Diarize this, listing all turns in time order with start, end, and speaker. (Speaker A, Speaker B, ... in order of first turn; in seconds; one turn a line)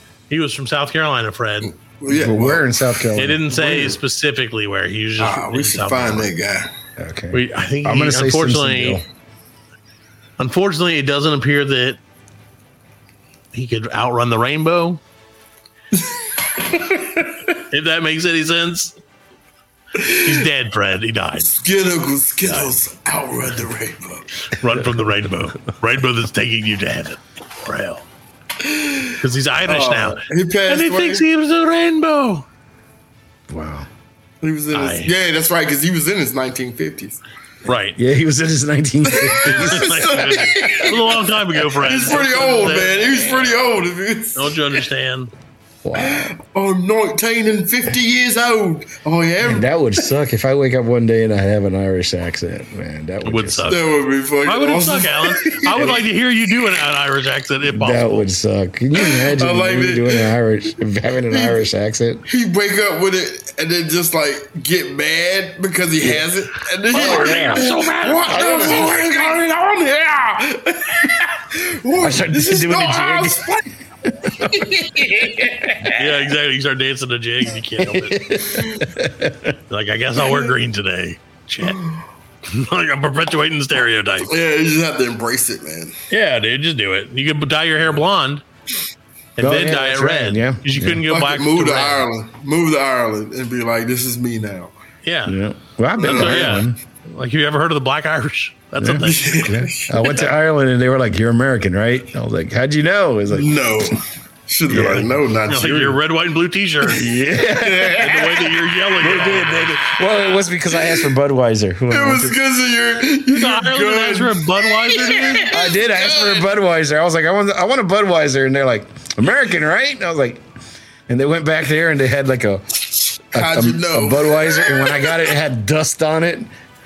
Speaker A: 0.3-1.7
Speaker B: 1.9-2.7
Speaker C: 2.1-3.5
Speaker A: 3.2-6.3
Speaker B: 3.5-4.0
Speaker B: 5.2-6.7
Speaker C: 7.0-9.0
Speaker A: 7.3-9.0
Speaker A: 10.4-12.0
Speaker A: 13.5-15.0
Speaker B: 15.9-17.3
Speaker A: 17.7-18.9
Speaker B: 19.9-20.3
Speaker A: 20.2-21.5
Speaker B: 21.4-24.3
Speaker A: 22.4-22.7
Speaker A: 24.5-28.0
Speaker B: 28.6-29.1
Speaker A: 29.2-32.5
Speaker B: 29.7-31.2
Speaker C: 33.5-33.9
Speaker B: 34.4-37.2
Speaker A: 34.7-35.1
Speaker A: 37.7-38.0
Speaker C: 38.0-40.3
Speaker B: 39.1-41.2
Speaker A: 39.5-43.5
Speaker B: 41.7-44.6
Speaker A: 44.4-45.3
Speaker C: 45.8-46.3
Speaker B: 46.0-49.7
Speaker C: 49.4-53.7
Speaker A: 53.2-53.9
Speaker B: 53.7-56.1
Speaker A: 54.4-58.2
Speaker C: 57.6-62.2
Speaker B: 59.0-60.3
Speaker B: 61.3-61.6
Speaker B: 62.3-73.7
Speaker C: 66.0-66.3
Speaker A: 66.9-69.1
Speaker C: 66.9-67.7
Speaker C: 68.2-69.0
Speaker C: 71.9-73.5
Speaker C: 74.3-74.5
Speaker B: 74.4-75.9
Speaker A: 76.0-78.3
Speaker C: 77.8-79.5
Speaker A: 79.7-81.8
Speaker B: 81.6-82.0
Speaker A: 82.5-84.3
Speaker B: 84.3-85.9
Speaker A: 86.1-88.4
Speaker A: 89.4-92.1
Speaker C: 89.4-91.0
Speaker B: 91.1-94.7
Speaker A: 95.0-95.4
Speaker C: 95.3-96.8
Speaker B: 96.0-96.6
Speaker A: 96.0-99.3
Speaker C: 98.8-103.5
Speaker B: 99.0-100.2
Speaker B: 103.3-106.0
Speaker C: 104.7-105.1
Speaker A: 105.5-107.1
Speaker C: 106.9-108.3
Speaker B: 107.5-108.4
Speaker A: 108.0-109.8
Speaker C: 109.0-112.4
Speaker B: 111.9-116.5
Speaker A: 113.3-115.5
Speaker C: 115.5-120.4
Speaker C: 121.1-122.7
Speaker B: 123.3-125.2
Speaker C: 123.3-126.5